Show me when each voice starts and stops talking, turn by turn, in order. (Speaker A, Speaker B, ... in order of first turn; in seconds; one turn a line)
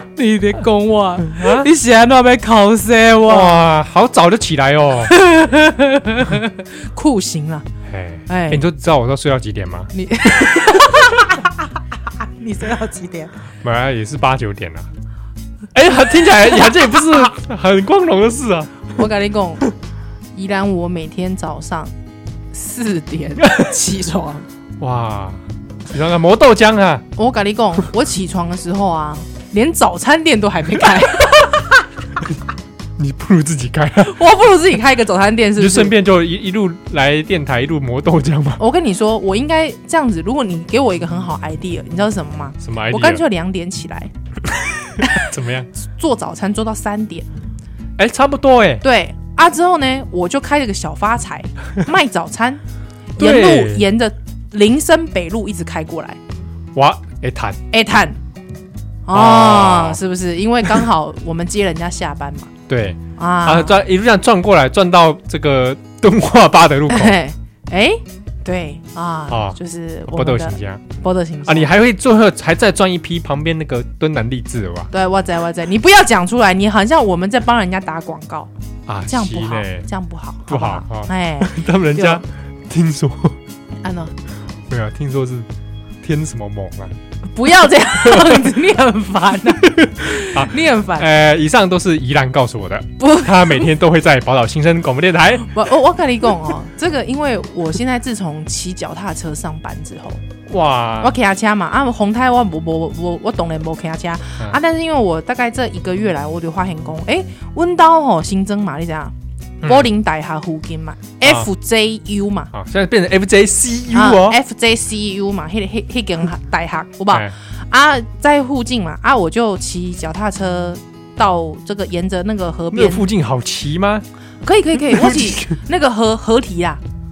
Speaker A: 0.1-3.6
Speaker B: 1.2-1.7
Speaker B: 3.2-5.1
Speaker A: 5.0-7.6
Speaker B: 7.9-9.9
Speaker A: 8.3-8.6
Speaker A: 9.9-13.3
Speaker B: 13.6-14.9
Speaker B: 15.7-18.9
Speaker A: 18.9-19.7
Speaker A: 20.3-21.9
Speaker A: 22.5-24.4
Speaker B: 24.8-27.0
Speaker A: 27.1-31.8
Speaker B: 33.0-34.2
Speaker A: 34.0-35.9
Speaker B: 35.6-38.6
Speaker A: 38.6-44.1
Speaker B: 42.6-43.2
Speaker B: 44.6-45.7
Speaker A: 45.0-45.3
Speaker A: 45.8-47.2
Speaker B: 48.0-48.8
Speaker A: 48.8-52.6
Speaker A: 53.2-56.2
Speaker B: 53.2-53.9
Speaker B: 56.7-57.6
Speaker A: 57.7-58.2
Speaker A: 59.0-62.5
Speaker B: 59.1-60.0
Speaker B: 62.7-67.2
Speaker A: 63.1-63.8
Speaker A: 66.9-71.7
Speaker B: 69.3-70.8
Speaker B: 71.5-74.9
Speaker A: 74.9-78.5
Speaker B: 78.9-79.8
Speaker A: 79.0-82.2
Speaker B: 80.5-83.4
Speaker A: 83.8-84.1
Speaker B: 84.7-85.5
Speaker B: 86.0-87.0
Speaker A: 87.3-91.1
Speaker B: 89.6-95.6
Speaker A: 93.0-93.7
Speaker A: 95.4-100.2
Speaker B: 100.5-101.1
Speaker A: 101.0-112.5
Speaker B: 112.5-114.4
Speaker A: 113.9-123.0
Speaker B: 122.7-124.0
Speaker A: 124.4-126.8
Speaker B: 124.9-125.5